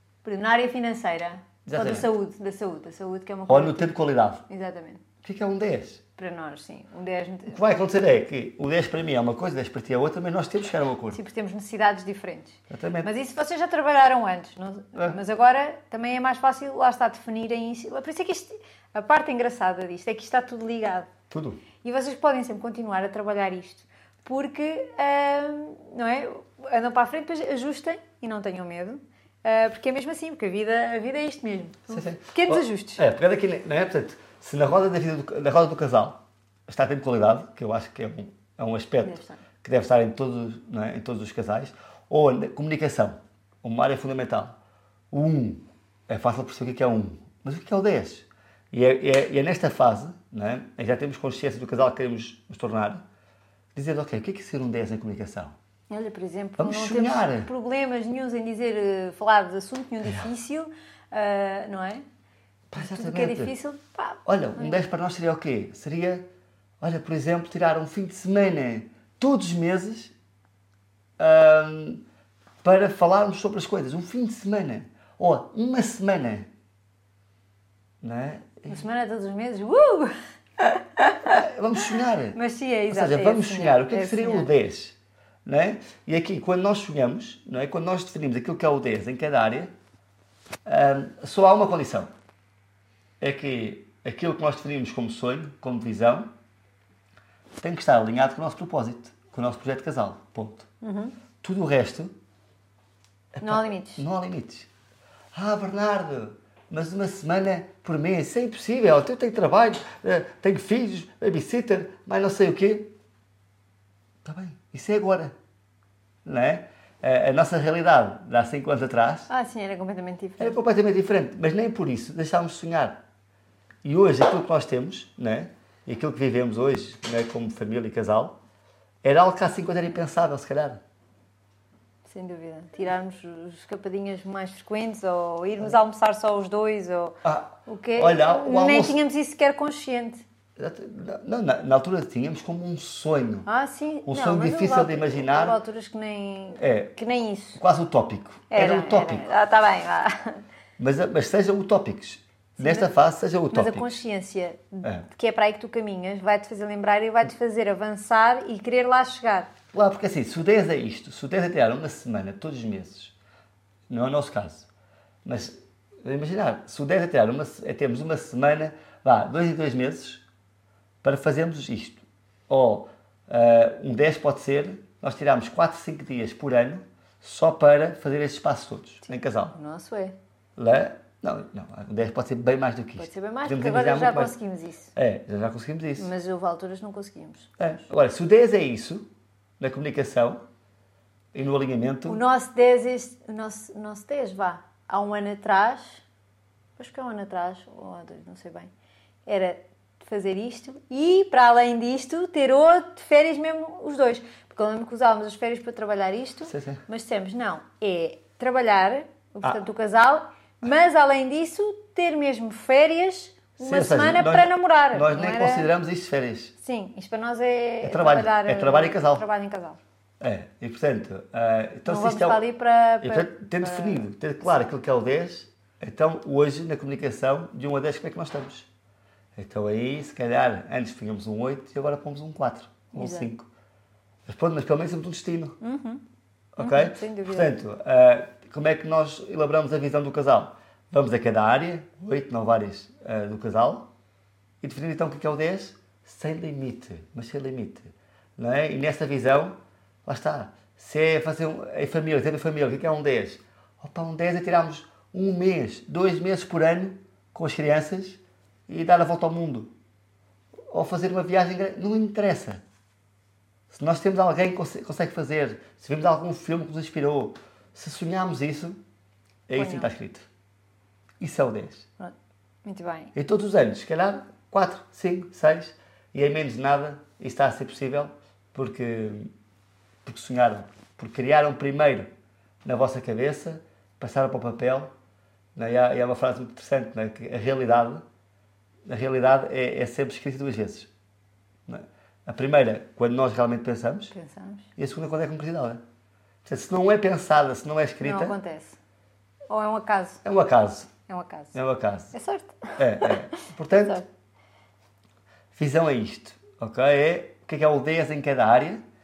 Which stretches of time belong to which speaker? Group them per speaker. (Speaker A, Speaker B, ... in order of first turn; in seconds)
Speaker A: 0.2-5.0, 6.2-7.6, 11.1-21.1, 21.8-33.0, 39.0-39.4, 55.9-62.0, 62.8-64.8, 78.7-81.4, 81.9-84.5, 100.8-101.2, 103.4-104.0, 119.3-120.6, 132.1-140.2, 143.4-147.6, 148.5-150.4, 152.6-152.9, 153.5-159.5, 179.1-180.1, 183.0-184.9, 186.0-187.8, 192.1-196.0, 196.8-198.7, 199.2-215.7, 216.6-219.8, 221.9-224.1, 232.9-233.3, 235.6-236.0, 236.6-237.6, 269.6-269.9, 272.6-273.1, 294.1-294.7, 298.0-298.8, 299.5-300.2, 301.1-301.5, 302.1-304.1
Speaker B: 1.6-2.1, 3.5-4.4, 5.2-6.0, 7.5-11.2, 12.7-13.1, 21.3-21.6, 31.9-44.5, 45.1-53.0, 53.7-55.5, 56.6-57.5, 62.7-63.5, 64.2-66.2, 66.8-70.1, 71.2-72.0, 72.6-76.5, 78.0-78.8, 81.3-82.4, 82.9-89.7, 90.7-92.1, 93.2-96.3, 97.6-100.7, 101.4-102.1, 103.3-104.7, 105.3-112.9, 114.2-115.3, 116.2-119.3, 120.4-123.0, 123.8-128.3, 129.0-130.8, 137.2-139.0, 140.6-143.5, 144.1-145.6, 146.6-146.9, 147.6-149.3, 150.8-154.0, 159.7-163.1, 163.9-164.7, 165.2-170.2, 171.0-179.6, 180.6-184.3, 184.9-186.1, 187.6-189.0, 189.6-190.4, 191.3-192.2, 206.4-206.8, 213.6-216.5, 217.8-219.2, 220.2-222.4, 223.0-228.7, 229.3-233.5, 234.3-235.6, 236.6-243.9, 244.6-259.7, 260.7-262.6, 263.7-268.8, 269.5-270.3, 271.2-271.9, 273.1-279.3, 280.0-282.1, 282.6-284.9, 285.6-288.0, 288.9-290.9, 291.7-294.1, 294.8-295.8, 296.4-298.4, 300.2-300.9, 301.5-302.1, 302.8-304.0, 305.5-308.8